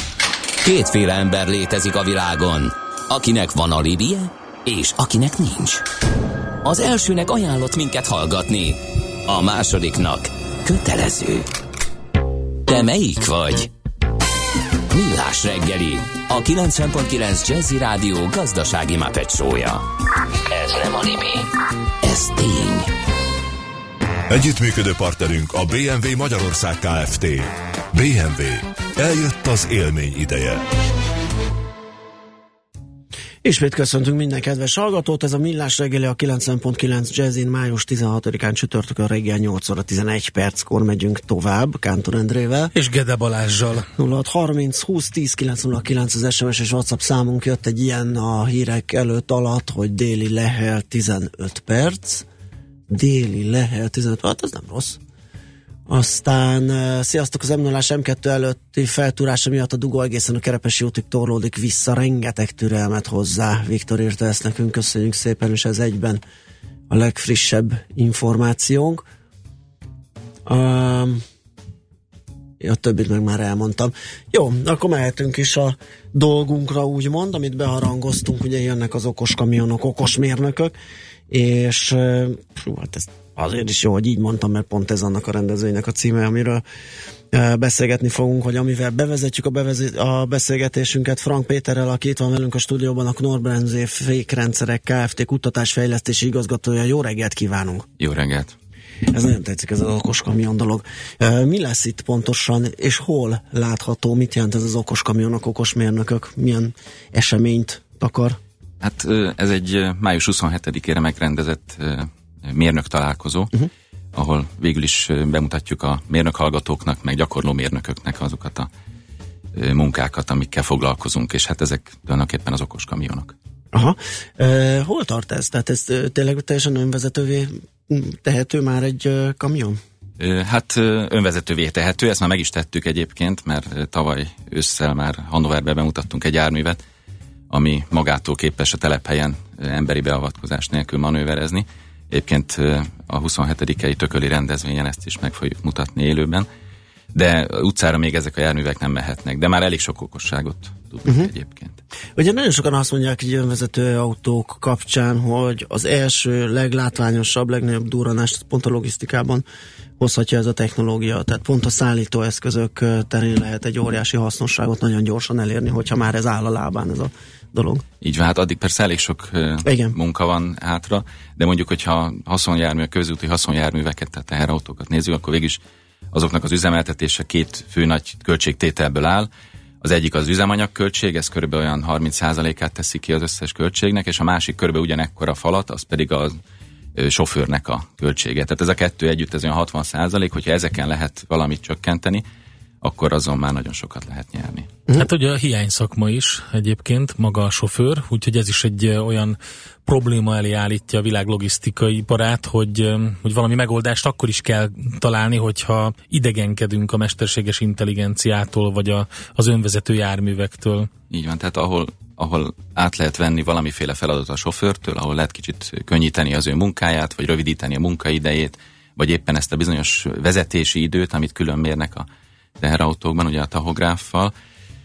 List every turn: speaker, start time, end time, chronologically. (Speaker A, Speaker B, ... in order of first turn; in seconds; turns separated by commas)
Speaker A: 0.6-5.8, Speaker A: 6.6-11.5, Speaker A: 12.7-13.7, Speaker A: 14.9-19.8, Speaker A: 20.5-21.4, Speaker A: 22.0-22.9, Speaker B: 24.3-30.6, Speaker C: 33.4-42.7, Speaker D: 42.7-43.9, Speaker C: 44.0-52.3, Speaker C: 52.9-55.0, Speaker C: 55.9-66.2, Speaker C: 66.9-69.0, Speaker C: 70.5-71.2, Speaker C: 72.6-80.8, Speaker C: 81.3-86.6, Speaker C: 87.3-97.9, Speaker E: 98.0-98.5, Speaker C: 99.1-108.4, Speaker E: 108.8-113.5, Speaker E: 114.1-118.7, Speaker E: 119.5-123.3, Speaker C: 123.7-129.8, Speaker E: 130.2-136.8, Speaker E: 137.5-146.5, Speaker E: 147.1-151.8, Speaker C: 151.0-151.3, Speaker C: 152.2-159.4, Speaker C: 160.0-167.8, Speaker E: 168.0-175.6, Speaker C: 169.6-169.9, Speaker E: 176.1-179.3, Speaker E: 179.8-186.4, Speaker E: 186.9-192.2, Speaker E: 192.8-194.7, Speaker D: 194.9-210.9, Speaker E: 211.1-222.1, Speaker E: 222.6-224.3